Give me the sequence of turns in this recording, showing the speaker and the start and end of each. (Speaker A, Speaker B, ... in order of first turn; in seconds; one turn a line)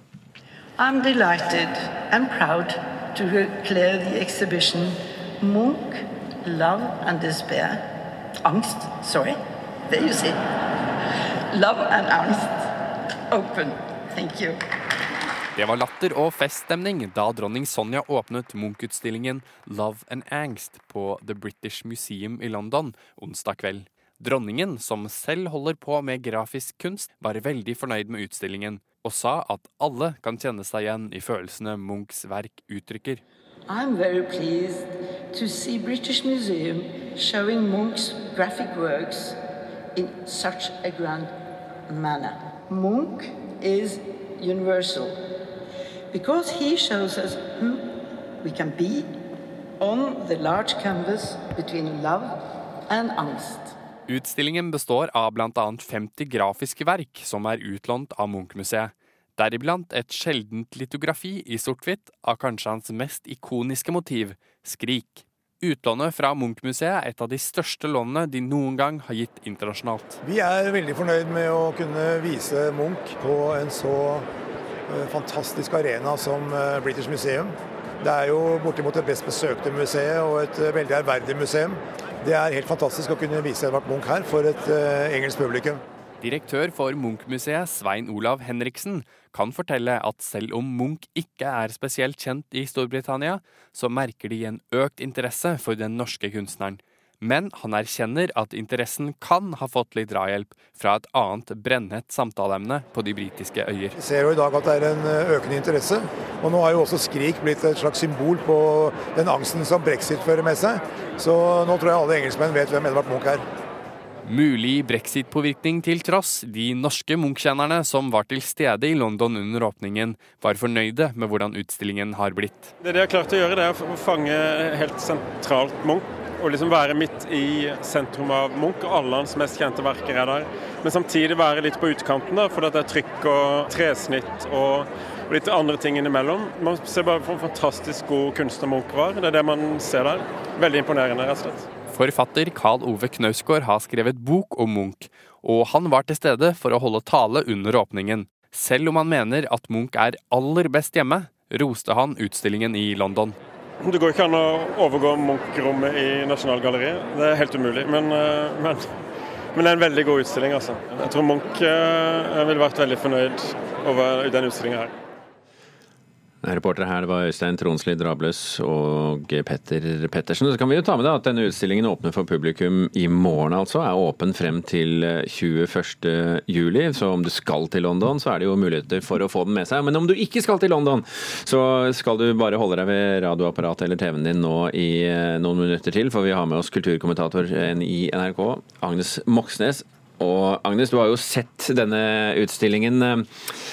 Speaker A: 0.8-7.9
Speaker A: 8.4-10.5
Speaker A: 11.5-12.7
Speaker A: 13.3-14.6
Speaker B: 15.6-33.2
Speaker A: 33.7-39.4
Speaker A: 40.0-41.3
Speaker A: 41.9-45.2
Speaker A: 46.1-49.2
Speaker A: 49.8-52.4
Speaker A: 52.9-53.8
Speaker B: 54.1-70.2
Speaker C: 70.2-74.3
Speaker C: 74.9-85.8
Speaker B: 86.2-104.0
Speaker C: 104.0-113.4
Speaker B: 114.2-122.7
Speaker D: 122.8-141.7
Speaker B: 141.9-153.4
Speaker D: 153.8-158.9
Speaker D: 159.6-164.9
Speaker E: 166.4-193.3